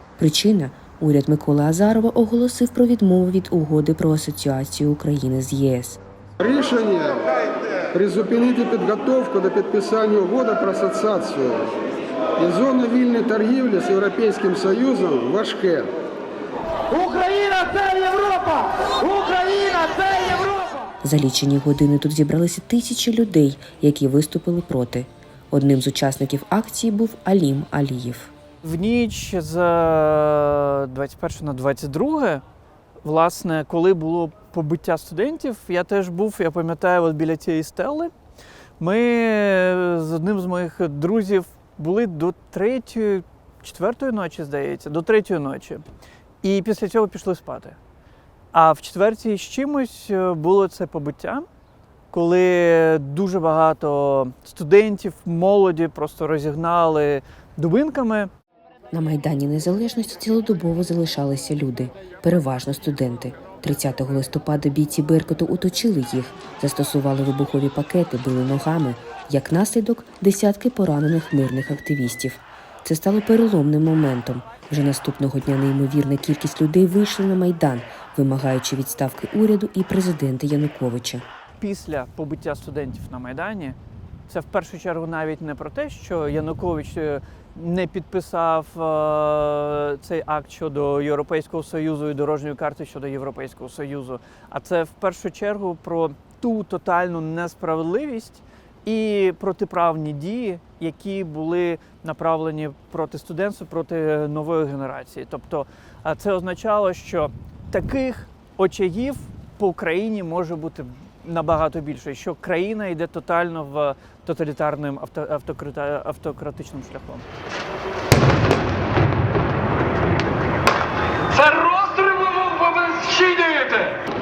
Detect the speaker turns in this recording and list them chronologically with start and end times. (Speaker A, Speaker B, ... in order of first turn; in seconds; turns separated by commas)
Speaker A: 0.2-6.0, Speaker B: 6.4-7.3, Speaker B: 7.9-11.7, Speaker B: 12.4-15.9, Speaker C: 17.0-18.6, Speaker C: 19.7-20.4, Speaker A: 21.0-28.3, Speaker D: 28.6-32.4, Speaker D: 33.0-38.1, Speaker D: 38.8-45.9, Speaker D: 46.4-47.8, Speaker D: 48.5-51.5, Speaker D: 52.1-58.3, Speaker A: 58.9-81.2, Speaker D: 81.6-83.8, Speaker D: 84.3-117.2, Speaker D: 121.3-124.0